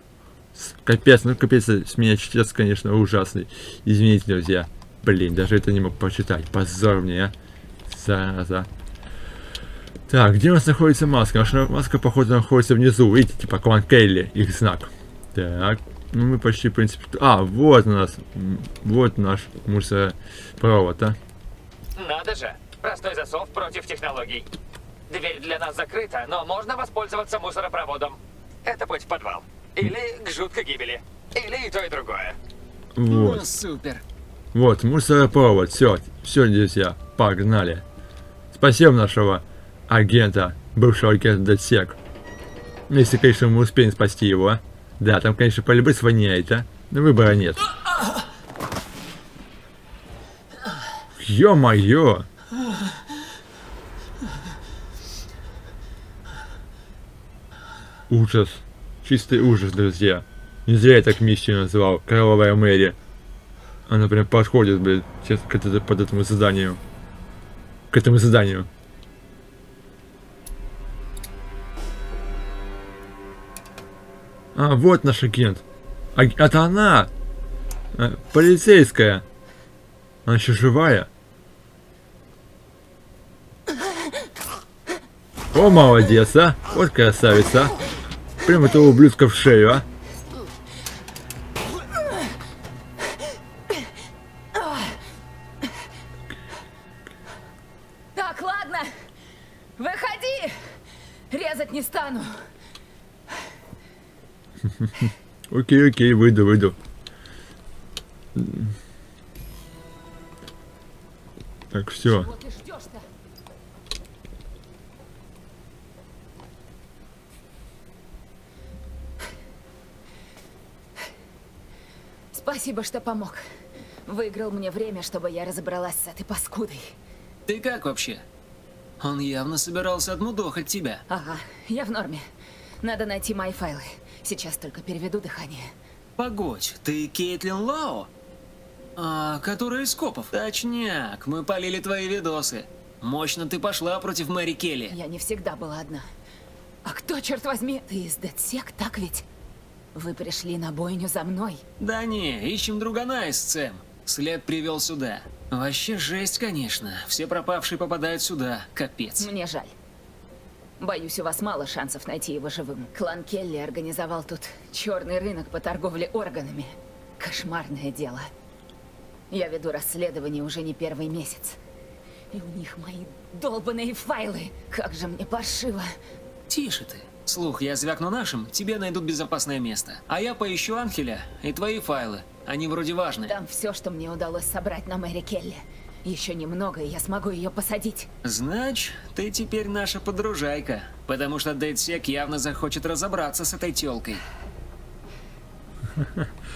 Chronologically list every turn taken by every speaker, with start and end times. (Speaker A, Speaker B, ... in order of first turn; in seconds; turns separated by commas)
Speaker A: 0.6-7.3, Speaker A: 7.9-8.7, Speaker A: 10.1-21.2, Speaker B: 21.9-24.5, Speaker B: 25.1-32.4, Speaker A: 33.0-33.4, Speaker C: 33.1-34.0, Speaker A: 34.5-37.8, Speaker A: 38.5-42.0, Speaker A: 42.9-47.6, Speaker A: 51.1-52.3, Speaker A: 58.1-63.0, Speaker A: 63.9-66.8, Speaker A: 67.9-68.7, Speaker A: 74.5-75.6, Speaker A: 76.2-77.1, Speaker A: 77.9-79.2, Speaker A: 80.3-81.1, Speaker A: 85.5-87.8, Speaker A: 88.4-89.8, Speaker D: 94.5-95.0, Speaker D: 98.2-98.9, Speaker D: 99.8-100.8, Speaker D: 101.3-102.4, Speaker A: 104.8-106.8, Speaker A: 108.3-108.8, Speaker A: 111.7-112.3, Speaker D: 112.0-113.1, Speaker D: 122.3-123.5, Speaker D: 124.1-126.9, Speaker C: 127.5-128.2, Speaker C: 129.0-131.0, Speaker D: 131.1-132.3, Speaker D: 132.8-135.7, Speaker C: 136.2-138.1, Speaker C: 139.0-145.0, Speaker D: 144.9-146.1, Speaker D: 146.8-149.2, Speaker D: 149.9-151.6, Speaker C: 151.8-159.3, Speaker D: 159.2-159.7, Speaker D: 160.8-168.3, Speaker D: 169.3-171.6, Speaker D: 172.3-176.0, Speaker C: 176.5-183.3, Speaker D: 183.2-188.1, Speaker C: 188.2-194.2, Speaker A: 196.0-196.3